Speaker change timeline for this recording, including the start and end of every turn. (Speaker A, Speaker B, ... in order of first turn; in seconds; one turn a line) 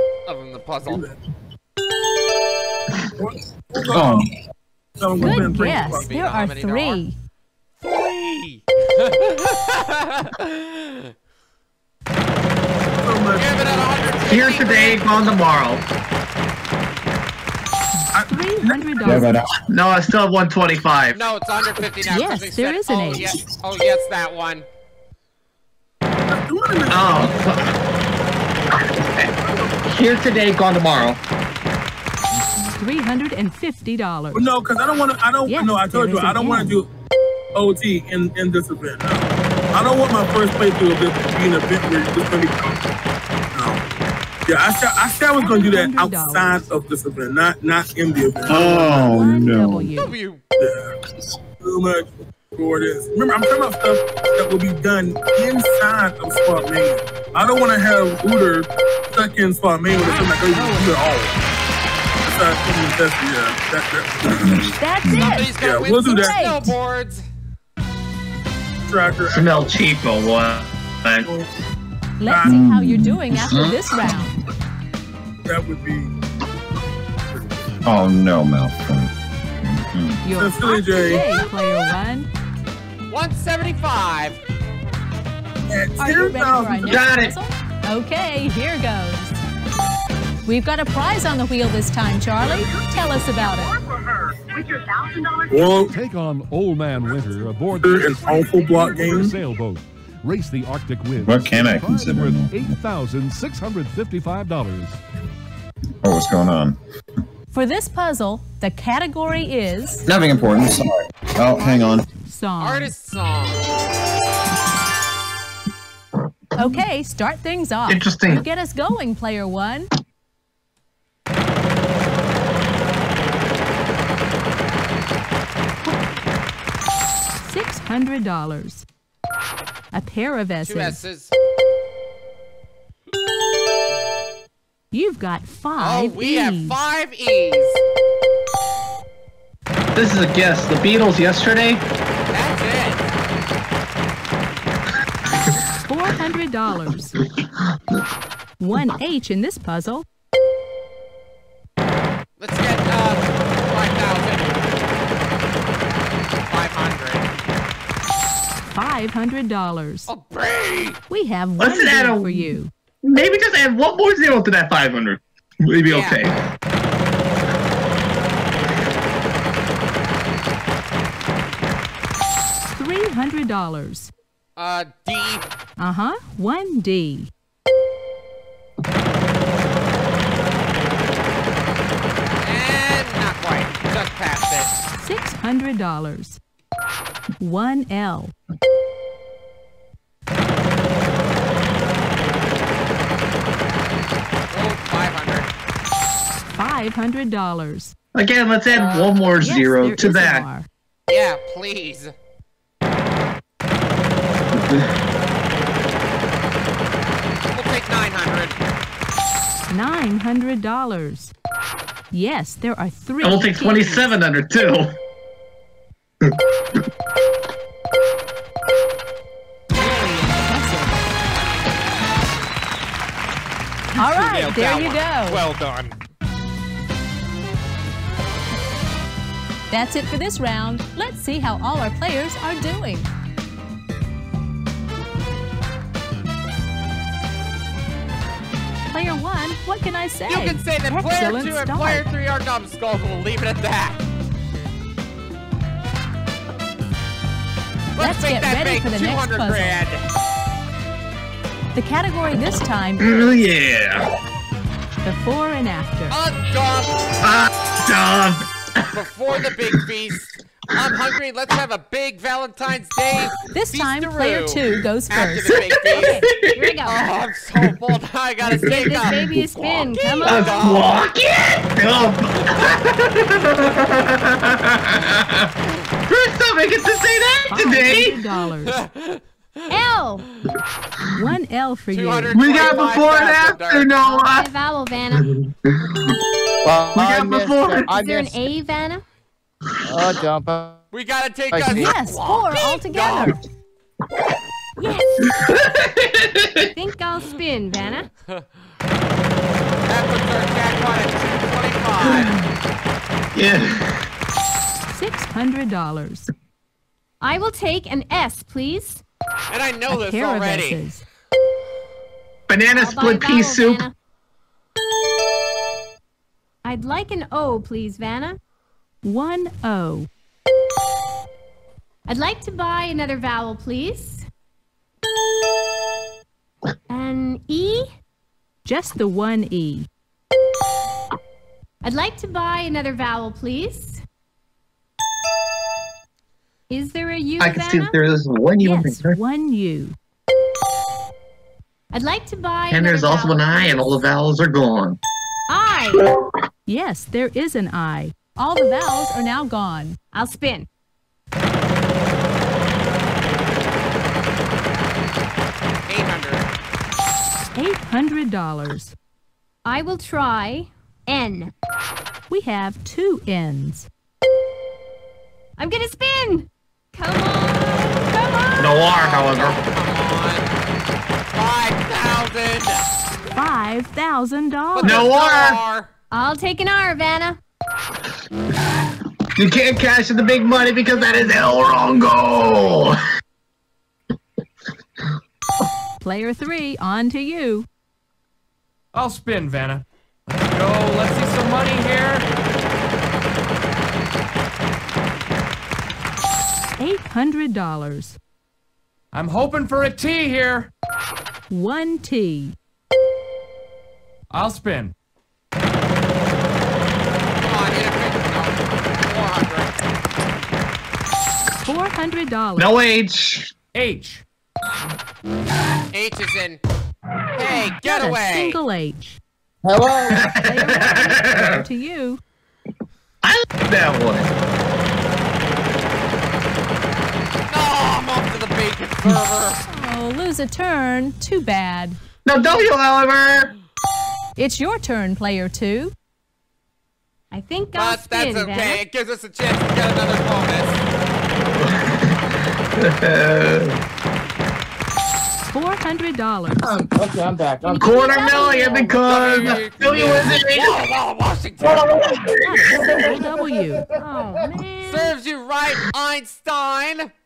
Speaker A: 0.3-1.1
Speaker B: 0.8-1.2
Speaker B: 3.2-4.3
Speaker C: 3.9-4.3
Speaker B: 5.0-6.2
Speaker D: 5.2-7.2
Speaker A: 5.6-7.0
Speaker A: 7.8-11.1
Speaker B: 13.0-14.0
Speaker A: 13.4-15.0
Speaker E: 14.2-15.8
Speaker B: 18.1-19.3
Speaker D: 18.3-19.3
Speaker C: 19.0-19.5
Speaker E: 19.7-21.2
Speaker A: 21.1-24.7
Speaker D: 22.1-23.3
Speaker B: 26.3-27.6
Speaker E: 26.9-27.7
Speaker B: 29.4-29.8
Speaker E: 29.8-31.2
Speaker D: 32.8-34.5
Speaker B: 34.3-36.9
Speaker D: 35.5-36.8
Speaker B: 37.5-42.8
Speaker B: 43.5-43.8
Speaker B: 44.5-49.1
Speaker D: 45.3-46.7
Speaker C: 48.5-49.9
Speaker D: 48.7-50.1
Speaker A: 50.0-50.4
Speaker B: 50.6-50.9
Speaker B: 51.6-61.3
Speaker D: 60.0-61.0
Speaker B: 62.2-64.8
Speaker C: 64.3-65.3
Speaker D: 64.8-66.7
Speaker A: 65.2-67.3
Speaker B: 65.5-66.4
Speaker B: 68.9-69.7
Speaker E: 69.3-71.3
Speaker D: 72.2-74.4
Speaker B: 72.2-72.7
Speaker C: 72.5-73.9
Speaker B: 75.5-76.1
Speaker B: 77.3-77.7
Speaker C: 77.8-79.1
Speaker C: 79.6-80.2
Speaker D: 80.2-82.3
Speaker B: 80.4-81.3
Speaker A: 83.1-84.4
Speaker B: 85.7-87.0
Speaker D: 86.0-89.4
Speaker E: 86.9-87.3
Speaker D: 90.5-93.8
Speaker B: 92.5-95.9
Speaker F: 95.9-105.0
Speaker B: 97.8-99.4
Speaker C: 101.2-102.6
Speaker C: 106.0-106.8
Speaker D: 107.5-110.1
Speaker C: 110.1-112.1
Speaker A: 111.5-112.0
Speaker D: 112.2-112.9
Speaker A: 112.6-113.7
Speaker D: 116.6-119.9
Speaker E: 117.9-118.5
Speaker D: 127.4-128.8
Speaker D: 129.9-131.0
Speaker A: 130.6-131.3
Speaker D: 134.9-136.8
Speaker A: 135.8-137.8
Speaker E: 139.9-141.8
Speaker A: 142.3-143.1
Speaker D: 145.8-147.2
Speaker D: 148.6-150.1
Speaker A: 152.4-154.6
Speaker A: 156.4-157.3
Speaker D: 158.7-160.1
Speaker A: 160.1-161.0
Speaker D: 161.1-162.7
Speaker E: 161.6-162.5
Speaker E: 163.1-166.3
Speaker A: 165.9-166.2
Speaker D: 172.8-174.1
Speaker A: 174.6-175.5
Speaker D: 175.8-177.3
Speaker A: 182.4-184.7
Speaker D: 185.0-186.4
Speaker D: 187.4-188.3
Speaker A: 194.5-195.5
Speaker D: 196.5-197.9
Speaker E: 198.2-200.4
Speaker A: 198.7-199.2
Speaker D: 199.4-200.7
Speaker A: 201.1-202.1
Speaker A: 207.5-208.6
Speaker D: 209.7-211.3
Speaker D: 212.1-214.1
Speaker E: 213.2-214.9
Speaker D: 219.7-221.1
Speaker A: 223.9-226.0
Speaker D: 224.0-225.4
Speaker D: 229.7-233.1
Speaker D: 238.9-242.1
Speaker A: 240.3-244.0
Speaker A: 248.0-250.0
Speaker D: 248.0-249.8
Speaker D: 251.8-253.5
Speaker E: 253.0-254.1
Speaker D: 255.0-256.2
Speaker A: 256.1-256.9
Speaker E: 257.2-258.8
Speaker A: 258.9-264.6
Speaker D: 263.5-265.6
Speaker A: 265.1-266.2
Speaker E: 265.5-266.8
Speaker G: 266.0-267.0
Speaker A: 266.9-271.0
Speaker G: 268.5-270.7
Speaker E: 268.6-269.2
Speaker E: 270.2-275.5
Speaker A: 273.6-274.0
Speaker E: 276.1-278.2
Speaker D: 277.5-278.8
Speaker A: 278.7-279.2
Speaker G: 279.7-280.2
Speaker D: 281.1-282.4
Speaker A: 281.9-283.9
Speaker E: 282.3-284.5
Speaker G: 284.0-285.3
Speaker E: 285.1-286.1
Speaker H: 286.6-288.4
Speaker E: 286.9-287.9
Speaker G: 287.9-289.0
Speaker H: 289.9-290.8
Speaker A: 290.9-293.4
Speaker H: 291.5-291.9
Speaker D: 291.7-293.4
Speaker G: 294.8-295.4
Speaker E: 295.3-296.7
Speaker G: 296.7-298.1
Speaker A: 299.9-302.3
Speaker E: 302.0-302.4
Speaker E: 303.4-304.0
Speaker D: 304.9-306.3
Speaker G: 307.2-309.0
Speaker A: 309.5-310.8
Speaker D: 309.9-311.0
Speaker E: 312.5-313.8
Speaker G: 312.7-313.9
Speaker G: 316.6-318.4
Speaker D: 319.0-320.1
Speaker G: 322.1-324.3
Speaker G: 326.9-327.9
Speaker D: 328.6-329.9
Speaker G: 331.8-334.0
Speaker G: 336.7-338.0
Speaker E: 337.4-339.2
Speaker D: 338.6-340.0
Speaker G: 341.9-344.1
Speaker E: 342.7-345.0
Speaker G: 345.5-346.1
Speaker D: 346.7-350.0
Speaker G: 350.1-350.7
Speaker A: 355.9-356.5
Speaker D: 357.6-358.9
Speaker G: 359.6-361.5
Speaker D: 362.3-363.9
Speaker G: 365.6-369.3
Speaker E: 368.6-369.6
Speaker A: 369.1-370.5
Speaker A: 371.3-372.8
Speaker D: 373.3-375.1
Speaker A: 374.8-375.9
Speaker E: 374.8-375.6
Speaker G: 376.1-377.4
Speaker E: 379.4-383.0
Speaker G: 380.9-382.9
Speaker D: 386.0-387.7
Speaker I: 388.9-392.3
Speaker D: 396.7-398.2
Speaker I: 399.1-400.7
Speaker D: 401.5-402.6
Speaker I: 404.3-404.9
Speaker A: 407.4-409.7
Speaker D: 411.6-412.7
Speaker E: 412.6-413.5
Speaker I: 413.7-414.2
Speaker A: 415.9-416.6
Speaker A: 417.4-418.6
Speaker D: 417.8-419.2
Speaker H: 419.6-420.3
Speaker E: 420.1-421.6
Speaker D: 420.4-422.2
Speaker E: 423.2-424.3
Speaker A: 427.5-429.6
Speaker D: 429.7-432.0
Speaker E: 432.3-433.5
Speaker D: 434.4-435.9
Speaker G: 437.3-438.8
Speaker A: 437.8-440.8
Speaker E: 441.4-442.2
Speaker E: 442.8-443.8
Speaker D: 445.5-446.8
Speaker H: 446.6-448.9
Speaker G: 447.6-449.0
Speaker E: 447.8-450.8
Speaker A: 449.0-451.9
Speaker E: 451.6-453.2
Speaker D: 452.4-453.8
Speaker H: 452.8-454.4
Speaker G: 454.0-455.1
Speaker A: 454.8-457.1